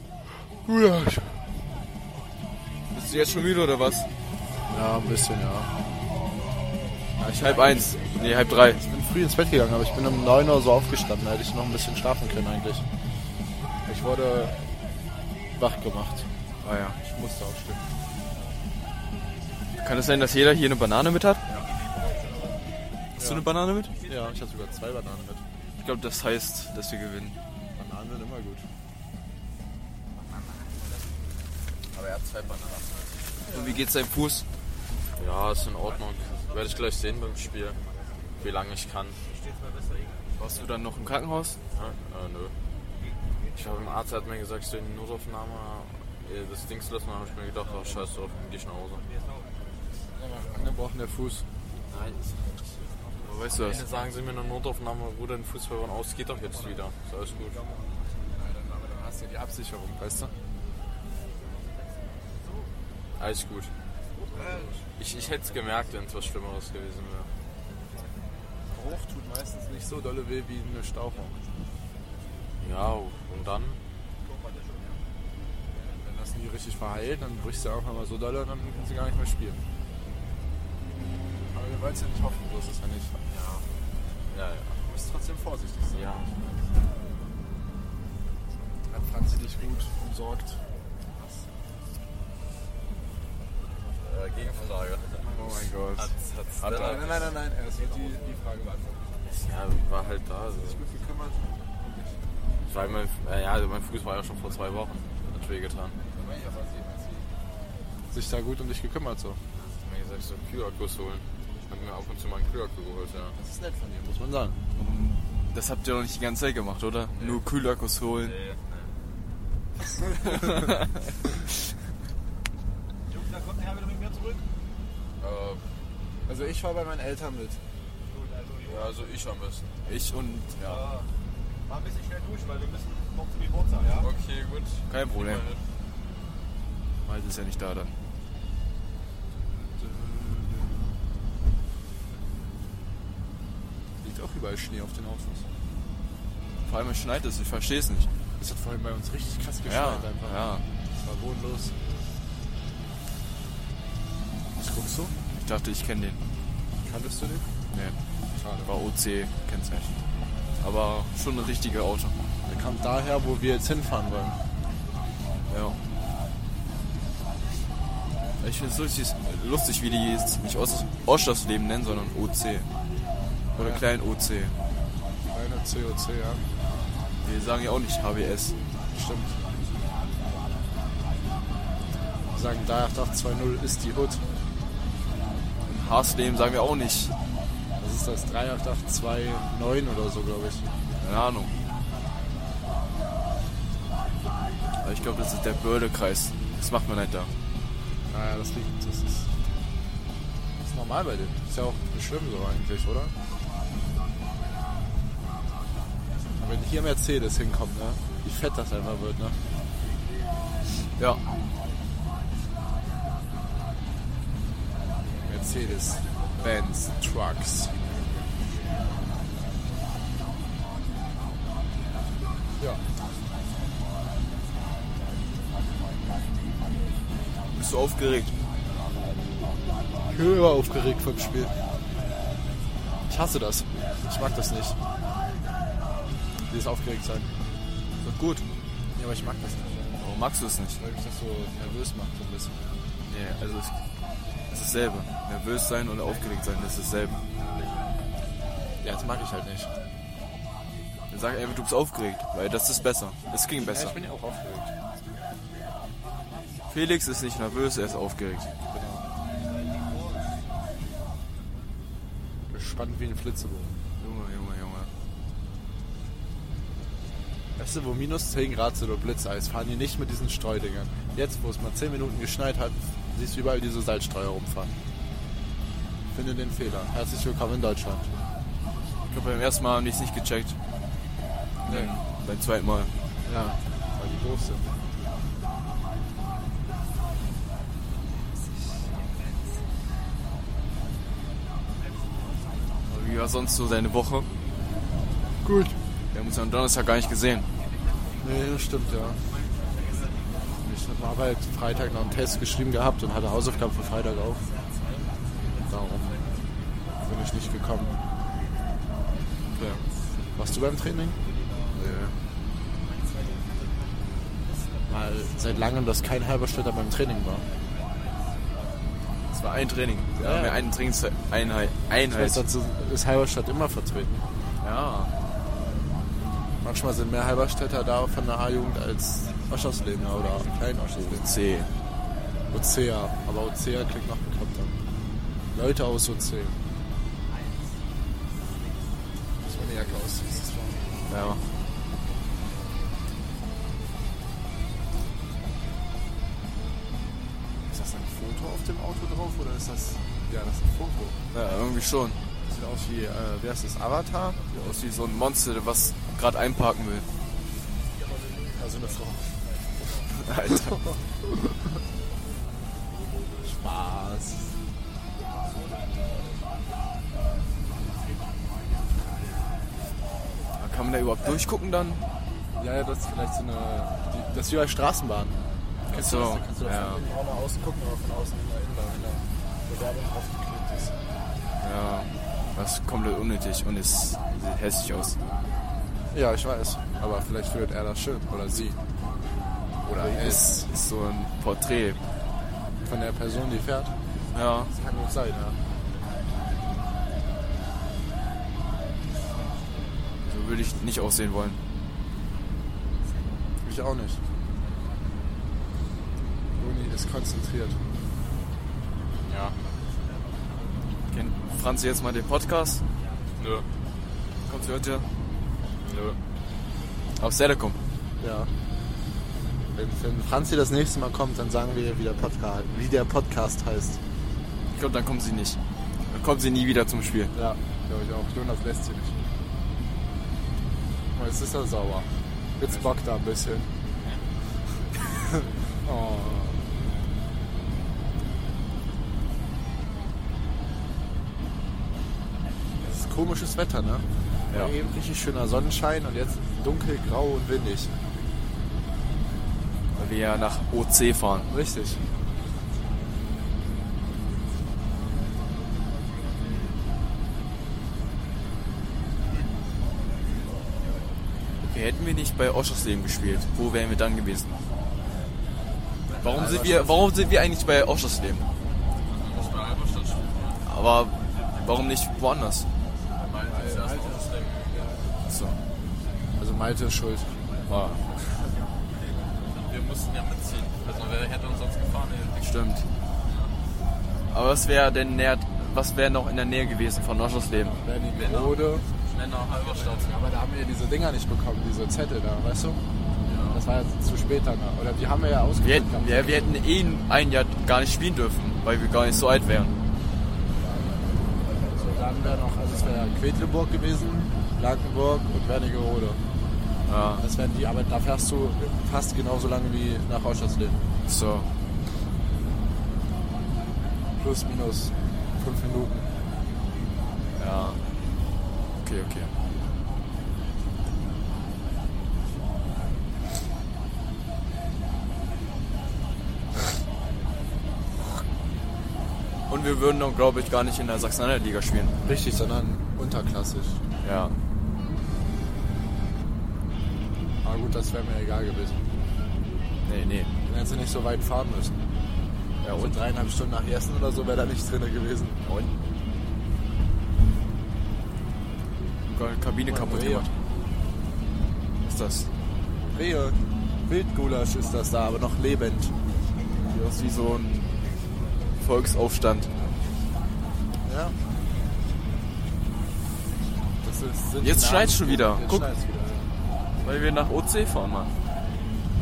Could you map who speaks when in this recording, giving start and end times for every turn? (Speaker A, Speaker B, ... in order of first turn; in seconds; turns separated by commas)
Speaker A: 0.4-1.4, Speaker B: 2.9-4.1, Speaker A: 4.7-5.7, Speaker A: 7.2-12.8, Speaker B: 7.3-8.8, Speaker A: 13.9-14.6, Speaker A: 15.6-16.3, Speaker B: 16.6-17.0, Speaker A: 17.0-17.8, Speaker B: 19.8-21.4, Speaker A: 23.2-23.5, Speaker B: 23.2-23.9, Speaker A: 24.1-25.4, Speaker B: 25.8-27.4, Speaker A: 27.8-28.7, Speaker C: 31.9-33.4, Speaker B: 33.5-34.5, Speaker C: 35.2-37.8, Speaker C: 38.4-39.2, Speaker B: 40.4-41.6, Speaker C: 41.7-42.5, Speaker C: 43.5-49.0, Speaker A: 50.1-51.5, Speaker C: 51.9-52.8, Speaker B: 53.2-53.8, Speaker C: 53.5-57.6, Speaker A: 58.3-60.3, Speaker C: 63.2-63.7, Speaker D: 64.4-64.6, Speaker C: 65.0-67.3, Speaker A: 68.7-71.4, Speaker C: 72.6-73.8, Speaker A: 76.0-79.6, Speaker A: 81.5-83.2, Speaker C: 83.3-83.7, Speaker C: 84.3-84.8, Speaker A: 84.9-86.1, Speaker C: 85.9-86.8, Speaker A: 88.9-90.6, Speaker C: 94.0-95.3, Speaker B: 95.3-96.2, Speaker C: 96.0-97.3, Speaker A: 96.7-99.2, Speaker C: 99.3-100.8, Speaker A: 100.7-102.2, Speaker C: 102.7-106.0, Speaker A: 106.2-107.3, Speaker A: 108.1-109.4, Speaker C: 109.5-113.4, Speaker A: 113.4-114.6, Speaker B: 114.8-118.4, Speaker C: 117.1-117.5, Speaker C: 118.2-118.9, Speaker B: 120.1-121.0, Speaker D: 123.1-124.4, Speaker C: 125.2-125.6, Speaker A: 126.3-127.6, Speaker D: 128.2-128.9, Speaker C: 128.7-129.7, Speaker B: 129.8-130.9, Speaker D: 131.7-134.0, Speaker C: 133.9-135.7, Speaker B: 134.9-135.4, Speaker B: 137.1-138.0, Speaker A: 139.7-141.0, Speaker A: 144.0-145.5, Speaker B: 146.6-148.1, Speaker A: 148.4-150.4, Speaker B: 149.7-150.7, Speaker A: 150.9-151.8, Speaker A: 154.6-155.1, Speaker B: 155.3-156.2, Speaker A: 156.8-157.5, Speaker B: 157.7-158.0, Speaker A: 158.3-158.7, Speaker B: 158.7-160.0, Speaker B: 160.6-162.2, Speaker A: 162.4-164.4, Speaker B: 165.5-165.8, Speaker B: 168.4-172.7, Speaker A: 173.6-173.8, Speaker B: 173.6-174.5, Speaker A: 175.3-176.5, Speaker B: 177.2-178.6, Speaker A: 178.9-179.4, Speaker A: 182.3-184.2, Speaker B: 185.7-187.1, Speaker A: 187.8-190.7, Speaker B: 191.0-191.5, Speaker B: 194.8-197.3, Speaker A: 198.1-199.3, Speaker A: 200.6-203.1, Speaker A: 206.4-209.4, Speaker B: 211.0-211.2, Speaker A: 215.2-217.8, Speaker B: 227.5-228.4, Speaker A: 230.1-231.5, Speaker A: 233.1-234.8, Speaker A: 236.5-237.3, Speaker B: 238.0-238.5, Speaker A: 238.9-240.0, Speaker B: 240.0-240.8, Speaker A: 240.8-242.6, Speaker B: 243.1-243.8, Speaker B: 244.5-247.2, Speaker A: 248.8-249.7, Speaker B: 251.1-254.1, Speaker A: 253.6-254.7, Speaker B: 256.7-258.5, Speaker A: 258.7-259.1, Speaker D: 259.5-260.4, Speaker A: 262.5-263.8, Speaker B: 264.0-264.9, Speaker A: 267.6-274.7, Speaker A: 276.1-278.1, Speaker B: 279.1-280.6, Speaker B: 281.6-282.9, Speaker A: 281.7-281.9, Speaker A: 283.2-284.7, Speaker B: 292.9-294.3, Speaker A: 295.4-295.8, Speaker B: 296.1-297.5, Speaker A: 298.2-299.2, Speaker D: 299.8-300.1, Speaker A: 300.7-304.5, Speaker A: 305.7-306.3, Speaker A: 307.0-308.0, Speaker B: 309.6-309.8, Speaker A: 310.4-311.2, Speaker A: 311.9-312.1, Speaker D: 312.9-313.9, Speaker D: 314.5-314.9, Speaker A: 314.9-317.4, Speaker D: 317.8-318.5, Speaker B: 319.3-322.4, Speaker A: 320.2-320.6, Speaker A: 322.1-324.2, Speaker B: 324.6-325.1, Speaker A: 326.6-331.3, Speaker B: 330.9-331.7, Speaker A: 332.5-334.8, Speaker A: 335.5-336.6, Speaker D: 337.4-337.9, Speaker A: 339.4-340.9, Speaker B: 341.1-341.4, Speaker A: 347.7-351.2, Speaker B: 351.3-352.2, Speaker A: 352.4-354.4, Speaker B: 354.5-357.1, Speaker D: 358.1-358.6, Speaker A: 358.6-359.4, Speaker B: 360.1-360.8, Speaker A: 363.4-364.5, Speaker B: 370.5-372.0, Speaker A: 372.6-380.9, Speaker B: 375.9-377.0, Speaker B: 381.6-385.2, Speaker A: 386.1-388.8, Speaker A: 389.9-390.7, Speaker B: 389.9-392.0, Speaker A: 392.9-393.9, Speaker B: 394.3-394.7, Speaker A: 394.7-395.6, Speaker B: 400.2-401.6, Speaker A: 403.6-404.2, Speaker A: 406.6-407.8, Speaker C: 409.2-409.6, Speaker B: 411.1-412.8, Speaker C: 413.4-413.7, Speaker B: 414.5-415.1, Speaker C: 415.8-416.2, Speaker B: 417.2-417.8, Speaker A: 418.2-418.5, Speaker A: 419.8-424.0, Speaker B: 424.7-427.3, Speaker A: 427.3-429.2, Speaker A: 431.1-433.7, Speaker C: 434.0-434.3, Speaker A: 435.3-436.8, Speaker A: 442.8-447.9, Speaker B: 449.9-451.5, Speaker A: 451.5-452.0, Speaker B: 461.6-464.6, Speaker C: 466.1-466.5, Speaker B: 466.2-468.4, Speaker A: 466.3-467.1, Speaker C: 469.1-470.6, Speaker B: 470.6-472.7, Speaker C: 473.2-474.9, Speaker A: 473.5-475.1, Speaker B: 475.3-475.6, Speaker A: 476.4-477.4, Speaker B: 477.7-478.0, Speaker A: 478.2-478.6, Speaker C: 479.4-482.5, Speaker B: 482.4-482.9, Speaker C: 483.3-483.5, Speaker B: 484.3-487.8, Speaker A: 487.8-488.9, Speaker C: 488.1-490.1, Speaker A: 490.0-492.8, Speaker C: 493.2-493.6, Speaker A: 493.5-496.6, Speaker B: 495.6-499.7, Speaker A: 501.8-506.2, Speaker B: 506.9-507.2, Speaker A: 507.2-510.8, Speaker B: 511.1-511.5, Speaker A: 514.2-516.1, Speaker B: 517.4-517.8, Speaker B: 518.8-519.3, Speaker B: 529.5-532.0, Speaker A: 532.0-533.8, Speaker B: 534.0-534.4, Speaker A: 537.4-538.8, Speaker B: 539.9-540.3, Speaker A: 540.5-541.7, Speaker B: 542.6-543.0, Speaker A: 542.8-545.4, Speaker B: 545.5-545.7, Speaker B: 549.1-550.3, Speaker A: 549.6-550.3, Speaker B: 551.8-552.3, Speaker A: 552.9-556.0, Speaker B: 556.7-557.7, Speaker B: 558.6-559.5, Speaker A: 560.8-561.2, Speaker A: 563.8-566.3, Speaker B: 564.4-565.7, Speaker B: 566.8-568.1